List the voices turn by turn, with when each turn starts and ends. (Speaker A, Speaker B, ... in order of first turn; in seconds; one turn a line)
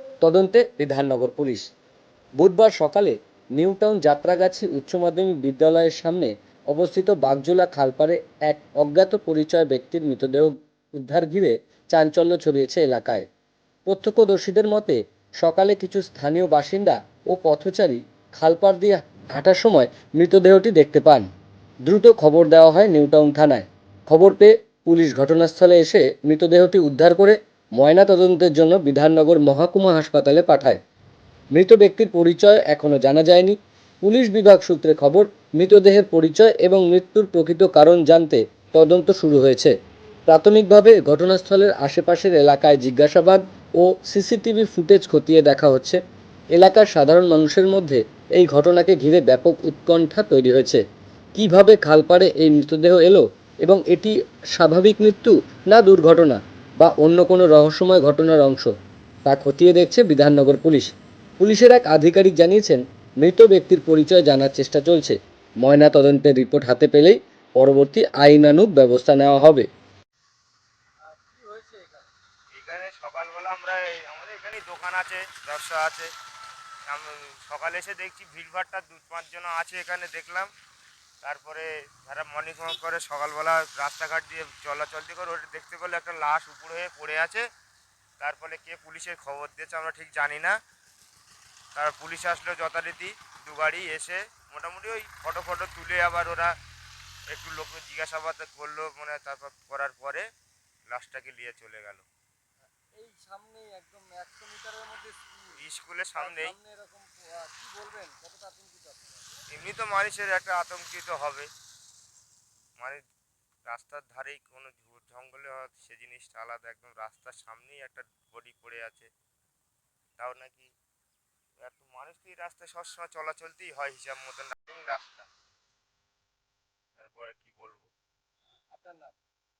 Speaker A: 0.2-1.7
Speaker A: 2.4-13.2
Speaker A: 13.8-21.3
Speaker A: 21.8-30.8
Speaker A: 31.5-39.7
Speaker A: 40.3-46.0
Speaker A: 46.5-50.8
Speaker A: 51.3-58.7
Speaker A: 59.2-69.7
Speaker B: 71.1-72.1
Speaker C: 72.5-76.1
Speaker C: 76.9-80.5
Speaker C: 81.2-87.4
Speaker C: 88.2-90.5
Speaker C: 91.7-96.5
Speaker C: 97.3-100.2
Speaker C: 100.9-102.0
Speaker B: 103.0-105.6
Speaker C: 105.5-106.5
Speaker B: 106.2-109.3
Speaker C: 109.5-111.5
Speaker C: 113.7-119.1
Speaker C: 120.2-120.7
Speaker C: 121.6-125.2
Speaker C: 127.0-127.9
Speaker B: 128.7-129.1